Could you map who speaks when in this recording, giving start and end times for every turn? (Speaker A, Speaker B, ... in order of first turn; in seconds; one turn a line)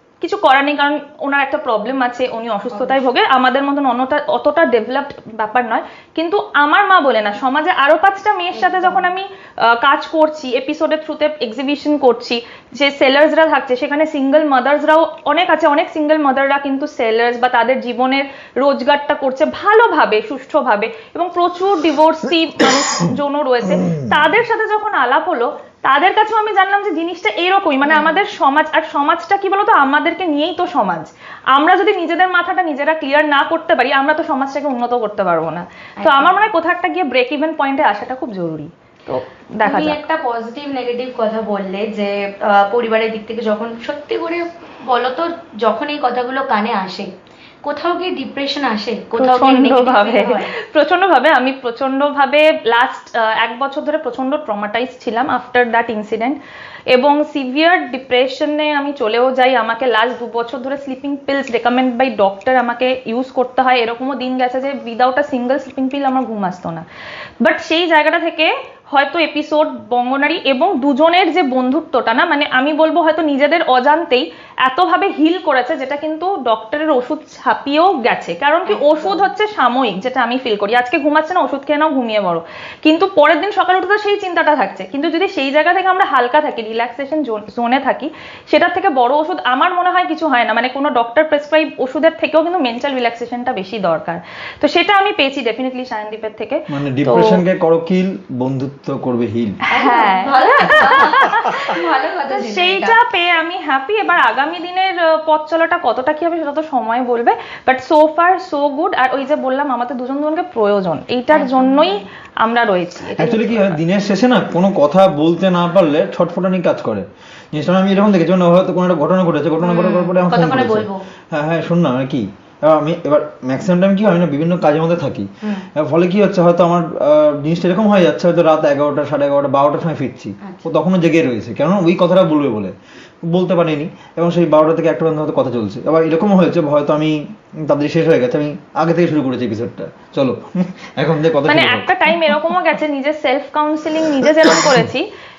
Speaker A: 0.2-40.0
Speaker B: 2.7-3.1
Speaker B: 8.5-9.1
Speaker B: 27.9-28.2
Speaker B: 36.0-36.5
Speaker B: 39.6-47.1
Speaker B: 47.6-50.5
Speaker A: 49.2-56.4
Speaker A: 56.9-66.8
Speaker A: 67.4-97.4
Speaker B: 78.7-79.3
Speaker C: 96.7-99.6
Speaker A: 99.7-101.7
Speaker B: 99.7-103.0
Speaker A: 102.3-113.8
Speaker B: 111.3-112.0
Speaker C: 113.2-132.8
Speaker B: 119.6-121.1
Speaker C: 133.3-142.5
Speaker A: 141.5-145.1